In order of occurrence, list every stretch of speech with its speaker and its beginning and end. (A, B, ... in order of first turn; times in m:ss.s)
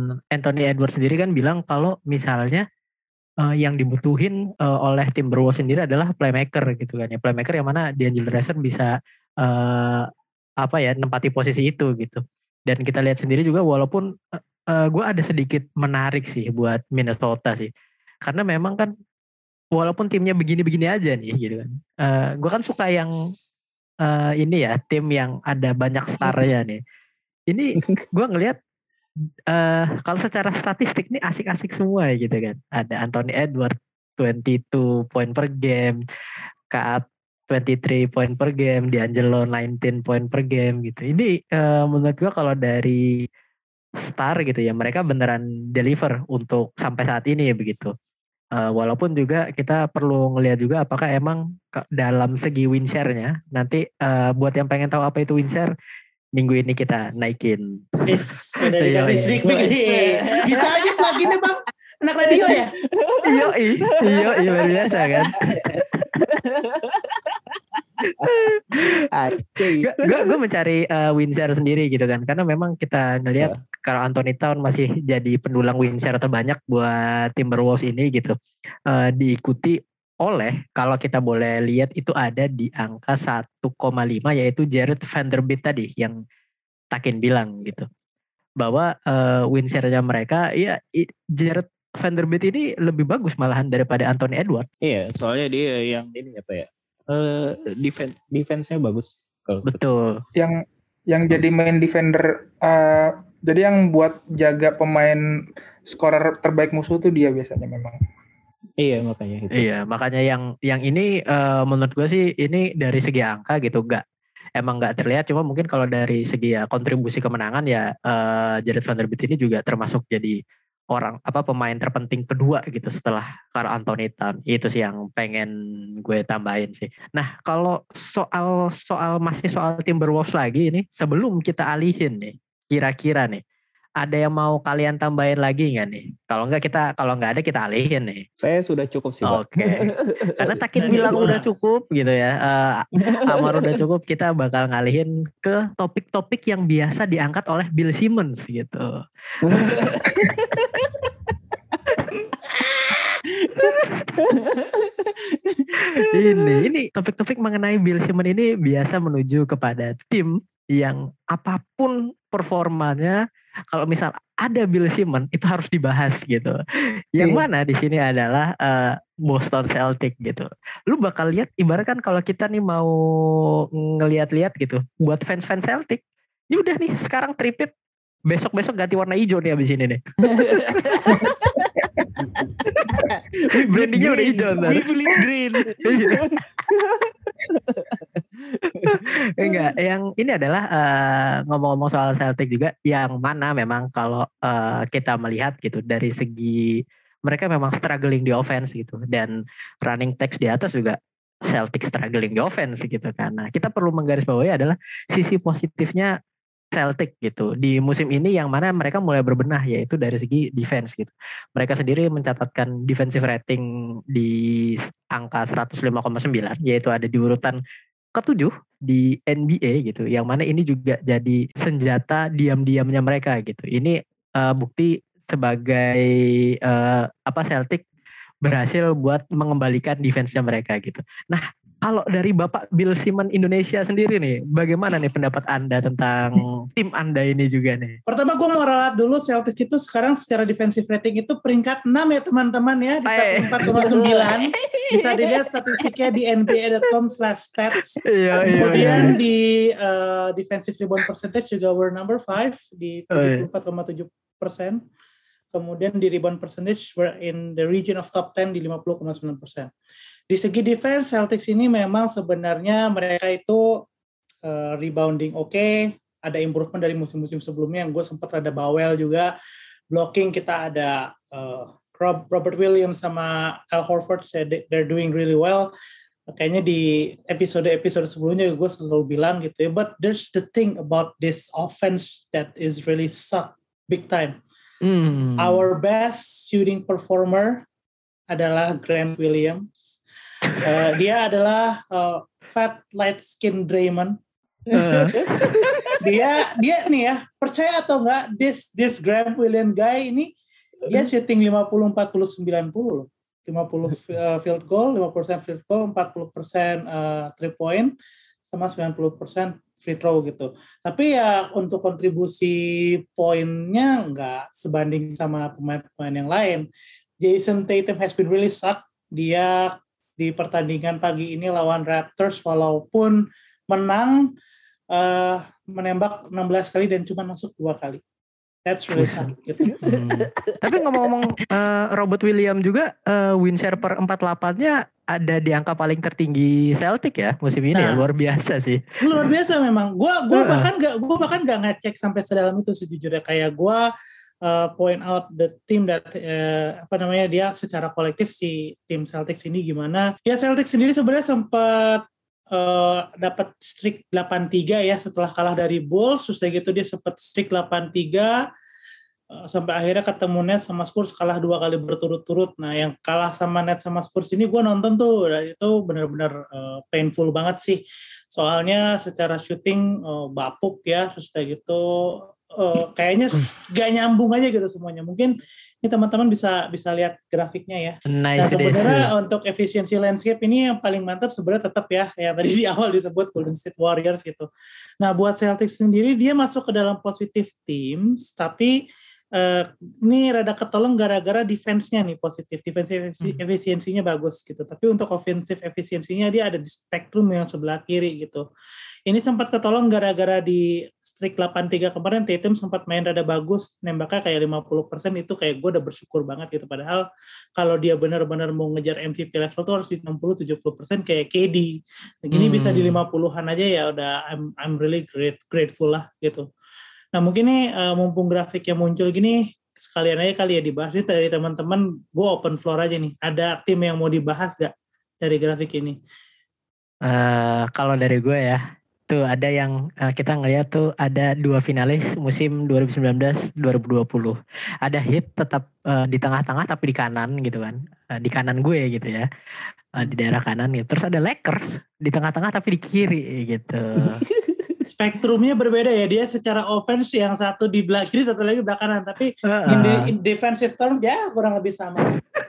0:00.3-0:02.6 A
0:03.5-0:10.1 A
0:10.6-0:14.1 A
0:14.7-0:17.7 A
0:18.3-0:18.9 A
0:19.8-0:23.1 A
0:24.0-0:26.8 A
0:27.5-0:28.6 A
0:29.5-0:36.0 A
0:36.7-0:43.3 A
0:44.1-0:47.9 A
0:48.6-0:55.7 A
0:56.4-0:58.2 A
0:58.1-1:02.7 B
0:58.8-0:59.5 A
0:59.1-1:01.3 C
1:02.3-1:07.8 C
1:03.2-1:06.2 A
1:08.1-1:08.9 A
1:08.8-1:10.4 C
1:09.6-1:18.4 A
1:18.9-1:26.2 A
1:26.9-1:27.9 A
1:28.6-1:34.7 A
1:34.8-1:39.7 C
1:39.6-1:40.2 A
1:40.4-1:45.2 D
1:45.9-1:48.0 D
1:48.8-1:49.7 C
1:49.5-1:54.0 A
1:54.6-2:00.4 A
2:00.9-2:05.5 A
2:06.0-2:13.4 A
2:14.0-2:18.2 A
2:18.4-2:21.2 C
2:19.3-2:28.9 A
2:20.8-2:21.4 B
2:23.0-2:23.8 C
2:29.4-2:30.9 C
2:29.5-2:30.0 A
2:31.7-2:32.3 C
2:33.2-2:36.7 C
2:33.6-2:34.1 A
2:35.9-2:43.2 A
2:43.7-2:46.6 A
2:47.1-2:52.9 A
2:47.2-2:47.5 D
2:53.8-2:57.7 A
2:58.3-3:00.0 A
3:00.3-3:01.7 C
3:00.8-3:01.1 A
3:02.4-3:08.2 C
3:02.7-3:03.0 A
3:03.5-3:04.9 A
3:05.8-3:06.3 A
3:08.6-3:21.0 A
3:08.7-3:09.7 C
3:21.5-3:26.2 A
3:26.8-3:37.6 A
3:38.2-3:46.1 A
3:46.6-3:47.8 A
3:48.4-3:58.0 A
3:58.1-4:08.0 B
4:03.1-4:03.8 A
4:03.6-4:05.9 C
4:08.1-4:09.2 A
4:08.3-4:09.2 C
4:08.5-4:14.8 B
4:13.1-4:13.4 A
4:15.5-4:19.7 B
4:20.3-4:23.8 B
4:24.4-4:29.3 B
4:29.9-4:35.7 B
4:36.3-4:44.4 B
4:44.8-4:45.7 A
4:45.4-4:47.7 B
4:48.3-4:50.0 B
4:50.6-4:54.2 B
4:54.7-4:56.0 C
4:54.7-4:55.8 A
4:56.0-5:00.3 B
5:00.9-5:07.9 B
5:08.5-5:16.7 B
5:17.2-5:24.3 B
5:24.9-5:28.0 B
5:28.7-5:29.8 B
5:29.0-5:29.3 A
5:29.7-5:31.1 C
5:29.8-5:38.8 A
5:37.7-5:38.0 B
5:39.0-5:43.9 B
5:40.3-5:40.7 A
5:44.4-5:58.4 B
5:59.4-6:07.8 B
6:08.3-6:24.5 B
6:18.1-6:19.1 A
6:25.0-6:28.8 B
6:29.4-6:38.4 B
6:39.1-6:47.0 B
6:47.6-6:51.7 B
6:52.2-6:56.5 B
6:52.3-6:53.0 A
6:57.2-7:06.0 B
7:07.1-7:19.3 A
7:20.0-7:24.2 A
7:24.0-7:24.8 C
7:24.9-7:32.2 B
7:29.6-7:30.1 A